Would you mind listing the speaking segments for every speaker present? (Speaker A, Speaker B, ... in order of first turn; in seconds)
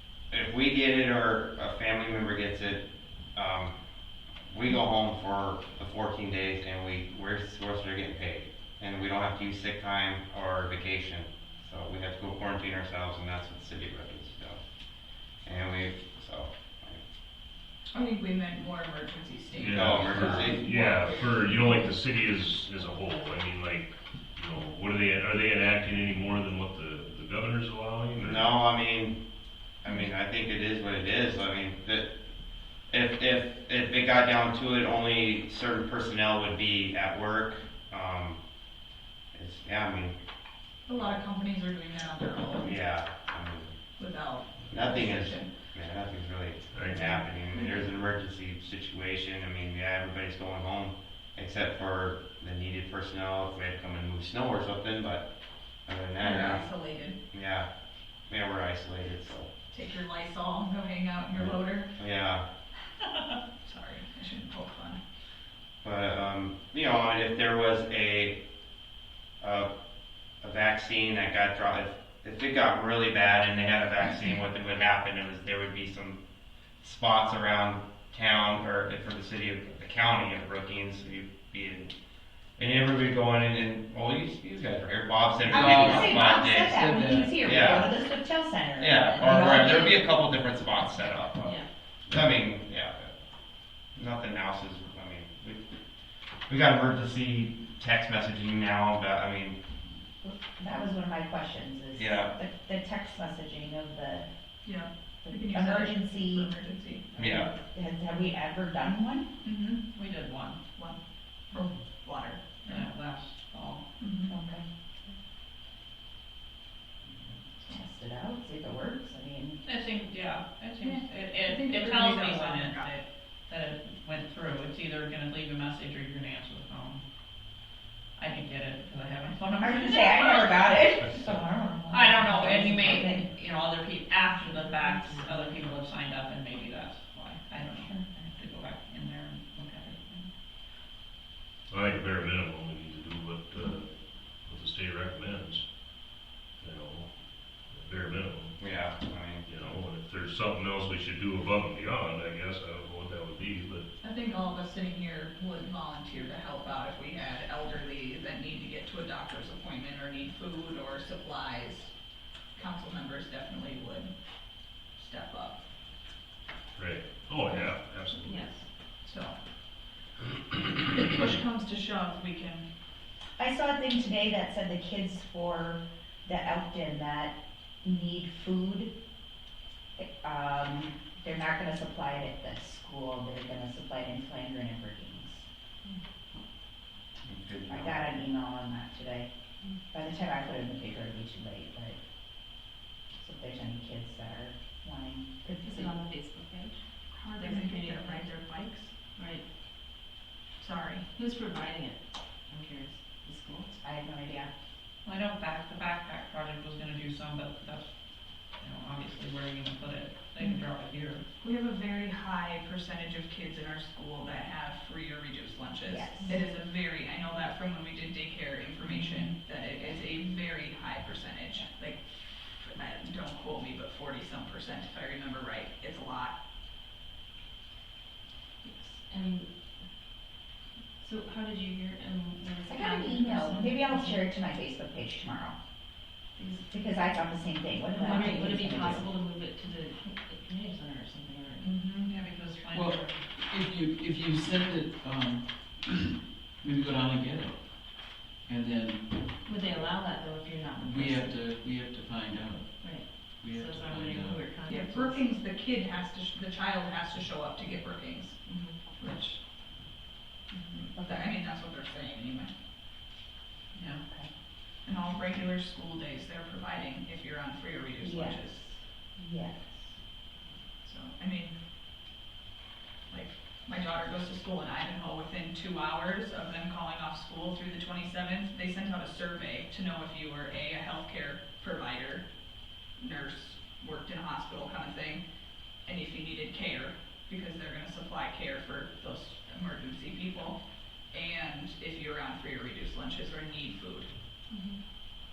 Speaker A: 0.3-2.8, 3.4-3.8, 4.5-14.6, 15.4-17.0, 19.7-20.6, 28.2-29.1, 29.8-32.1, 32.9-38.4, 39.4-40.2, 42.6-43.7, 44.7-55.2, 55.9-56.7, 57.3-57.7, 58.3-59.5, 61.4-62.4, 65.8-68.4, 69.4-69.7, 70.4-76.2, 76.8-81.9, 82.6-87.9, 88.8-93.1, 94.0-95.6, 96.5-99.6, 102.0-102.3, 107.2-107.5, 148.6-149.5, 187.2-188.1
Speaker B: 17.9-21.8, 40.9-42.7, 44.0-45.5, 56.2-57.2, 59.7-61.9, 63.6-65.0, 104.7-107.1, 109.4-109.8, 111.5-112.8, 114.0-114.4, 120.8-123.0, 154.0-161.9, 162.6-164.1, 165.0-165.6, 169.1-169.4, 170.7-172.7, 197.1-198.9, 200.6-201.1, 211.4-226.3, 241.6-242.0, 254.7-258.4, 259.0-259.4, 260.5-262.5, 264.8-268.7, 270.8-271.5, 273.1-282.3, 282.9-285.2, 285.8-290.6, 291.1-294.1
Speaker C: 19.6-28.5, 46.7-47.2, 141.7-143.9, 144.4-145.6, 146.6-147.1, 147.7-148.6, 149.5-153.9, 166.8-168.4
Speaker D: 85.5-90.0, 100.2-104.3, 105.2-106.6, 107.2-109.3, 114.3-115.1, 117.6-119.6, 129.6-133.3, 137.6-138.1, 173.4-178.9, 180.0-185.5, 187.7-189.3, 189.9-192.0, 193.2-195.9, 203.7-204.5, 215.8-216.4, 232.7-235.6, 236.7-239.1, 260.9-261.3, 268.0-269.9
Speaker E: 85.5-87.8, 242.7-249.3, 250.8-254.4
Speaker F: 110.0-110.6, 112.7-113.8, 119.7-127.0, 128.2-130.7, 131.9-140.3, 205.1-207.9, 208.6-211.2, 241.8-243.2, 263.7-264.0
Speaker G: 168.2-168.6, 195.6-196.8, 197.4-198.3, 199.2-199.4, 201.2-203.7, 228.6-229.5, 231.0-234.2, 236.4-236.6, 237.9-241.7, 249.4-251.4, 252.8-255.3, 258.5-258.8, 294.5-294.8